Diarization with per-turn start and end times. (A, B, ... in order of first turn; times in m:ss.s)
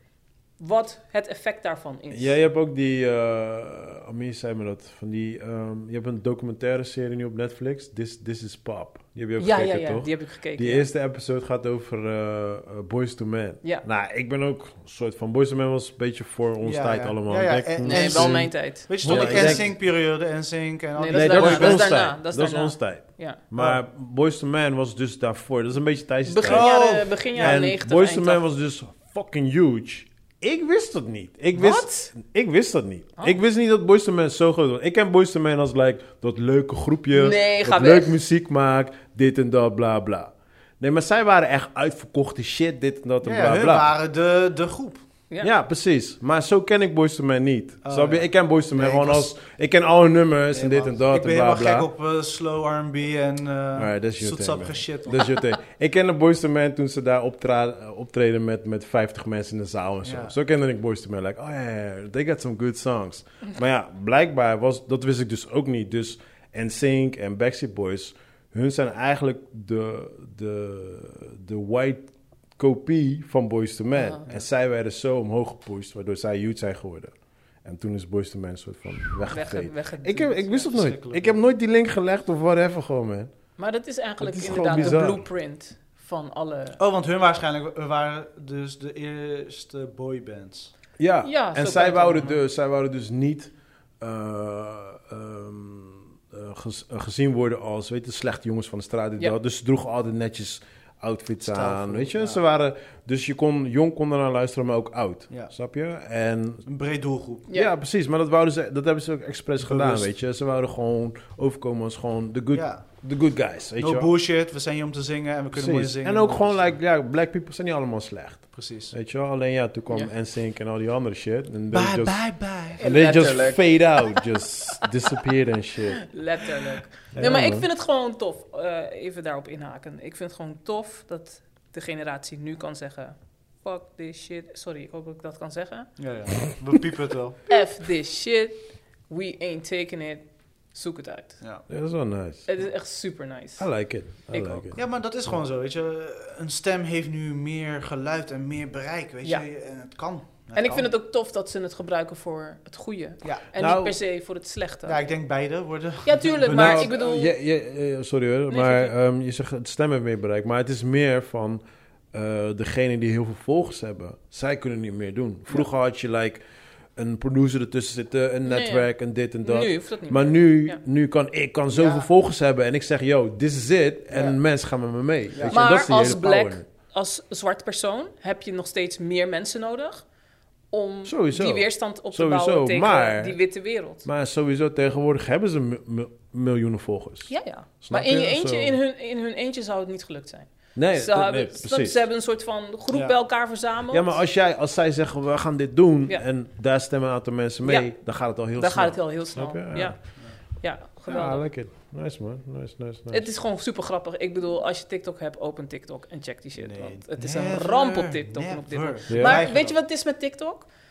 0:00.6-0:02.3 A
0:02.1-0:19.8 B
0:09.4-0:10.9 A
0:16.6-0:22.0 C
0:17.8-0:19.7 A
0:21.0-0:23.4 A
0:21.1-0:43.9 B
0:23.5-0:23.8 C
0:26.2-0:28.4 A
0:26.4-0:27.6 C
0:31.5-0:32.1 A
0:37.1-0:38.2 A
0:43.2-0:45.0 C
0:45.4-0:51.9 B
0:47.8-0:49.3 C
0:50.5-0:55.3 C
0:53.7-1:23.3 B
1:00.0-1:00.3 C
1:13.9-1:14.2 A
1:19.3-1:20.7 A
1:20.6-1:21.4 C
1:23.6-1:26.8 A
1:24.2-1:25.2 B
1:26.8-1:30.7 C
1:31.0-1:46.6 B
1:31.2-1:32.4 A
1:41.4-1:42.4 C
1:46.6-1:47.5 C
1:47.5-1:54.1 B
1:49.6-1:50.1 C
1:52.5-1:52.8 C
1:53.8-1:56.8 C
1:55.5-2:06.1 B
1:58.5-1:58.9 C
2:01.7-2:02.8 C
2:02.8-2:04.2 A
2:06.1-2:15.9 A
2:07.1-2:07.7 B
2:16.0-2:17.4 C
2:17.5-2:21.4 A
2:21.4-2:21.6 C
2:21.7-2:22.7 B
2:22.4-2:23.7 A
2:23.6-2:24.8 B
2:24.2-2:24.8 A
2:24.7-2:30.9 C
2:30.5-2:35.0 A
2:33.5-2:34.0 B
2:34.8-2:37.0 C
2:36.0-2:37.3 A
2:36.5-2:41.6 B
2:38.5-2:38.9 A
2:42.1-2:46.4 B
2:46.9-2:56.6 B
2:48.4-2:48.9 A
2:49.4-2:50.8 A
2:51.7-2:52.1 C
2:55.3-2:55.6 C
2:55.5-3:00.0 A
3:00.7-3:04.0 A
3:01.0-3:08.8 B
3:07.3-3:14.2 A
3:10.7-3:12.0 B
3:13.9-3:20.1 B
3:17.6-3:17.9 A
3:18.5-3:21.5 A
3:21.0-3:23.3 B
3:23.1-3:30.7 A
3:26.6-3:29.8 C
3:29.1-3:29.4 B